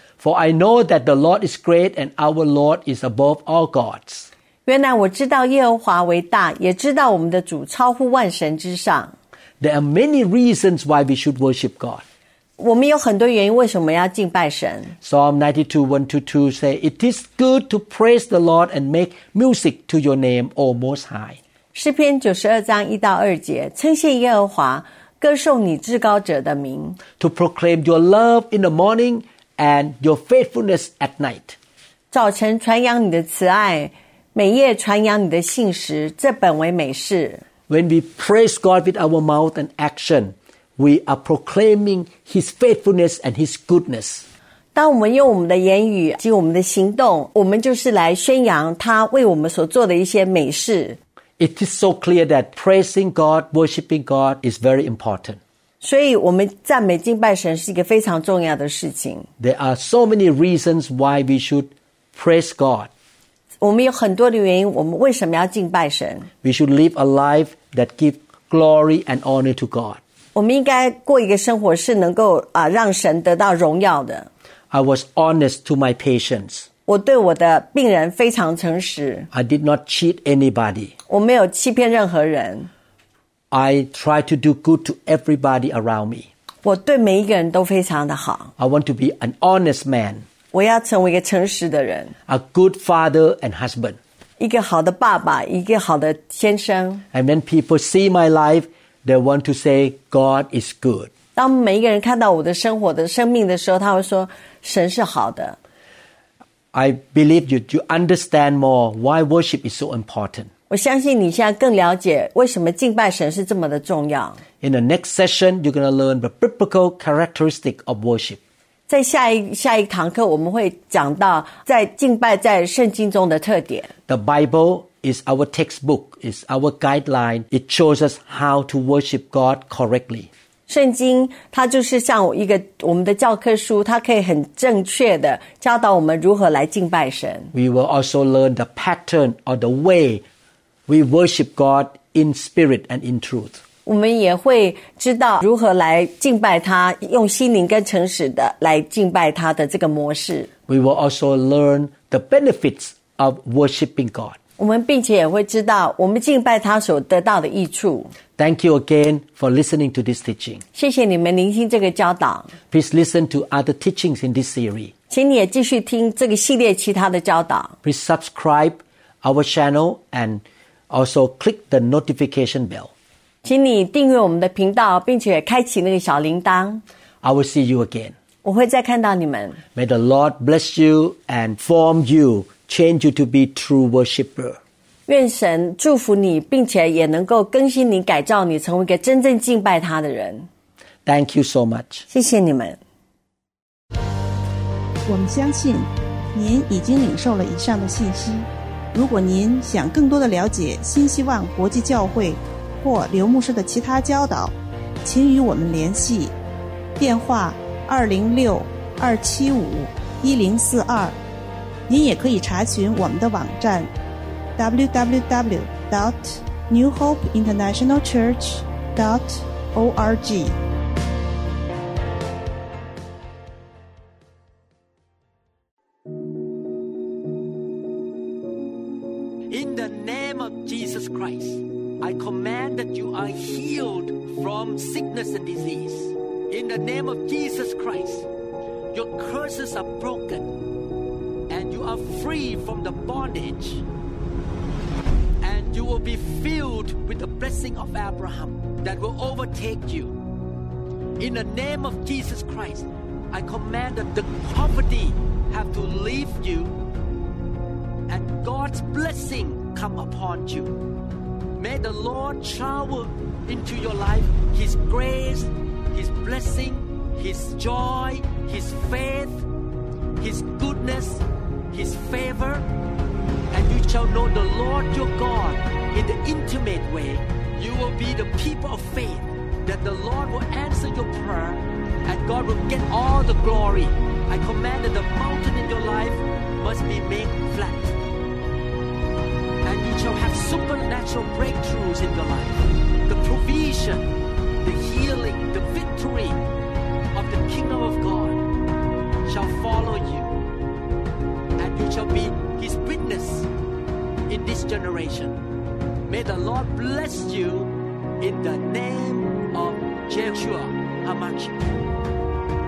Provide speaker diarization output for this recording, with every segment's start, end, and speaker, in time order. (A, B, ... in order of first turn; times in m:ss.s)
0:00.2-0:04.3 A
0:04.6-0:09.1 B
0:09.6-0:12.0 A
0:12.6-0:14.9 B
0:15.0-0:21.4 A
0:21.7-0:27.0 B
0:27.2-0:31.6 A
0:32.1-0:37.4 B
0:37.7-0:44.2 A
0:44.7-0:51.0 B
0:51.4-0:55.4 A
0:55.8-0:59.3 B
0:59.4-1:02.9 A
1:03.6-1:06.3 B
1:06.4-1:10.0 A
1:10.3-1:14.3 B
1:14.7-1:16.7 A
1:16.9-1:19.3 B
1:19.3-1:20.9 A
1:21.1-1:22.7 B
1:23.5-1:26.3 A
1:26.6-1:28.5 B
1:28.6-1:30.2 A
1:30.5-1:32.1 B
1:32.3-1:34.0 A
1:34.4-1:37.0 B
1:37.1-1:41.1 A
1:41.3-1:45.6 B
1:46.7-1:50.5 A
1:50.7-1:54.4 B
1:54.6-1:58.4 A
1:58.9-2:03.9 B
2:04.1-2:10.3 A
2:10.7-2:17.5 B
2:17.5-2:20.2 A
2:20.9-2:23.6 A
2:23.8-2:30.5 B
2:30.7-2:34.4 A
2:34.6-2:38.1 B
2:38.4-2:40.6 A
2:40.7-2:42.5 B
2:42.7-2:44.9 A
2:45.1-2:47.8 B
2:47.8-2:52.9 A
2:53.4-2:56.8 B
2:57.2-2:58.1 A
2:58.4-2:59.6 B
2:59.7-3:04.6 A
3:05.1-3:10.5 B
3:11.0-3:12.0 A
3:12.1-3:12.8 B
3:15.1-3:26.3 C
3:27.0-3:31.2 C
3:31.9-3:33.9 C
3:34.6-3:40.6 C
3:49.5-3:58.3 A
3:58.9-4:00.6 A
4:01.5-4:03.8 A
4:05.4-4:10.1 A
4:11.2-4:16.8 A
4:18.1-4:20.7 A
4:21.6-4:29.4 A
4:30.2-4:32.7 A
4:33.5-4:48.0 A
4:49.6-4:54.1 A
4:54.6-4:56.4 A
4:57.1-4:58.4 A
4:59.2-5:00.4 A
5:01.6-5:03.5 A
5:04.3-5:05.4 A
5:06.0-5:11.7 A